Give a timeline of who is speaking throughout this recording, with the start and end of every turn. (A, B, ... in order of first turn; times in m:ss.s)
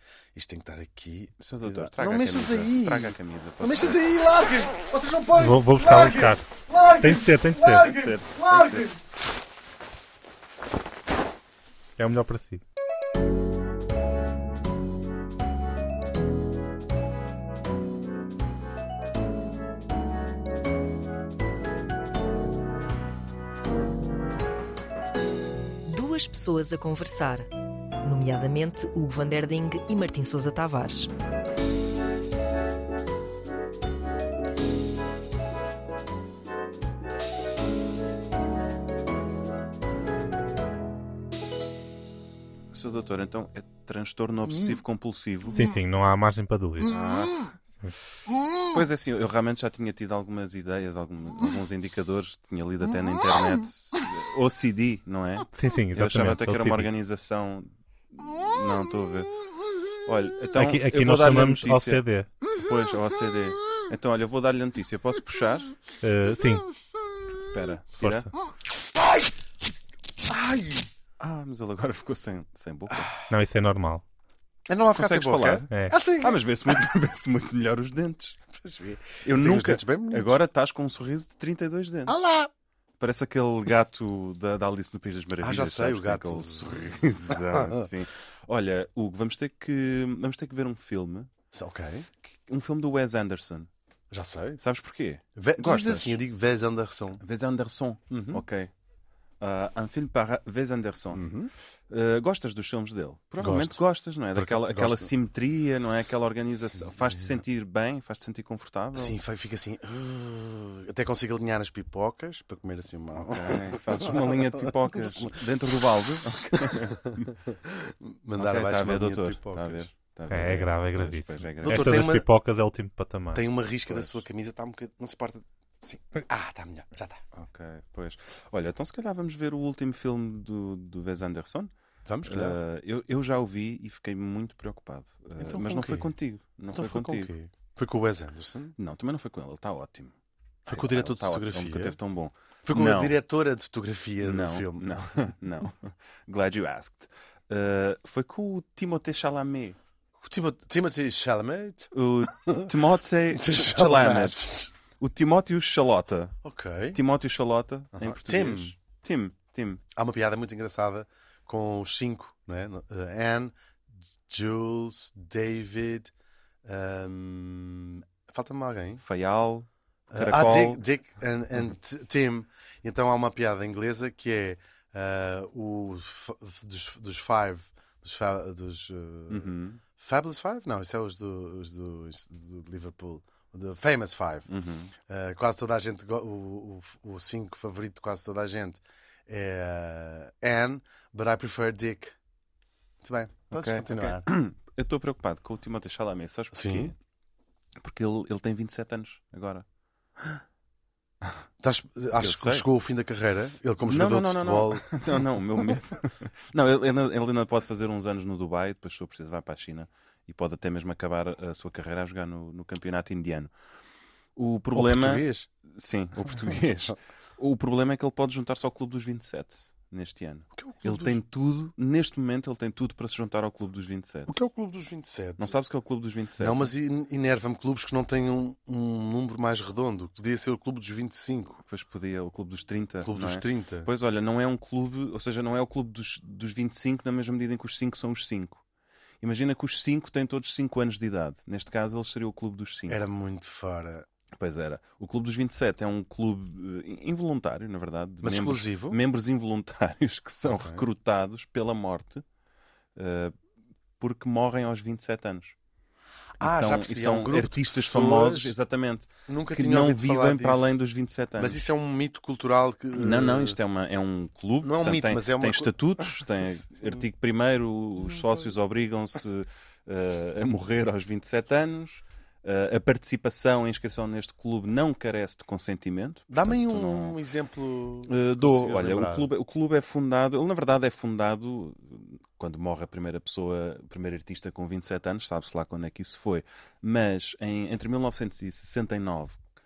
0:00.3-0:09.0 A
0:01.4-0:04.0 B
0:05.4-0:06.4 C
0:07.0-0:07.9 C
0:07.8-0:08.9 B
0:12.0-0:12.6 C
0:25.8-0:27.5 D
0:28.0-0:31.1 D
0:42.7-0:45.7 B
0:45.6-0:46.9 C
0:46.8-0:47.4 B
0:48.7-0:59.4 B
0:55.5-0:56.9 C
1:00.0-1:05.7 B
1:00.6-1:02.3 C
1:06.0-1:06.6 C
1:07.5-1:08.3 B
1:09.0-1:09.3 A
1:10.3-1:10.9 A
1:11.2-1:13.1 B
1:12.9-1:13.2 A
1:13.3-1:14.0 C
1:14.7-1:16.4 A
1:14.9-1:18.4 B
1:18.5-1:20.4 A
1:19.2-1:22.2 B
1:22.1-1:22.5 A
1:23.0-1:31.3 B
1:25.4-1:27.9 A
1:31.5-1:32.1 A
1:32.2-1:33.7 B
1:34.1-1:34.6 A
1:34.6-1:36.2 B
1:35.4-1:37.2 A
1:37.2-1:38.7 B
1:38.1-1:38.4 A
1:39.4-1:41.2 B
1:41.1-1:41.5 A
1:41.9-1:49.2 B
1:43.4-1:43.8 A
1:44.3-1:45.1 A
1:46.8-1:47.4 A
1:48.9-1:59.9 A
1:53.2-1:57.3 B
1:58.4-2:02.1 B
2:00.3-2:03.4 C
2:01.6-2:02.2 A
2:03.3-2:07.2 A
2:03.9-2:04.2 B
2:07.3-2:11.7 B
2:12.0-2:12.6 A
2:12.2-2:17.3 B
2:15.4-2:16.1 A
2:16.7-2:18.7 A
2:18.8-2:20.1 B
2:20.7-2:22.0 A
2:20.7-2:23.1 B
2:22.6-2:25.3 A
2:24.2-2:29.8 B
2:30.2-2:32.7 A
2:31.9-2:36.4 B
2:33.3-2:34.7 A
2:36.4-2:37.0 A
2:36.9-2:39.8 B
2:37.9-2:38.7 A
2:39.9-2:43.5 A
2:44.3-2:46.1 A
2:46.6-2:49.0 A
2:49.0-2:50.8 B
2:50.1-3:04.5 A
2:59.3-2:59.8 B
3:04.5-3:04.9 B
3:05.1-3:12.2 A
3:13.0-3:14.2 A
3:13.5-3:16.9 B
3:16.5-3:16.9 A
3:17.8-3:19.6 B
3:21.6-3:25.1 A
3:22.2-3:22.6 B
3:23.8-3:33.5 B
3:34.4-3:44.3 B
3:34.7-3:35.5 A
3:40.6-3:41.2 A
3:44.3-3:45.5 A
3:45.4-3:46.7 B
3:46.4-3:51.6 A
3:51.6-3:58.6 B
3:53.0-3:53.9 A
3:59.2-4:03.0 B
4:02.9-4:04.0 A
4:04.3-4:12.2 B
4:08.2-4:09.0 A
4:10.4-4:10.8 A
4:13.0-4:13.3 B
4:14.0-4:15.5 B
4:16.4-4:18.6 A
4:16.4-4:21.6 B
4:19.3-4:20.8 A
4:21.4-4:23.6 A
4:22.9-4:37.2 B
4:24.6-4:27.0 A
4:36.3-4:39.3 A
4:38.0-4:49.4 B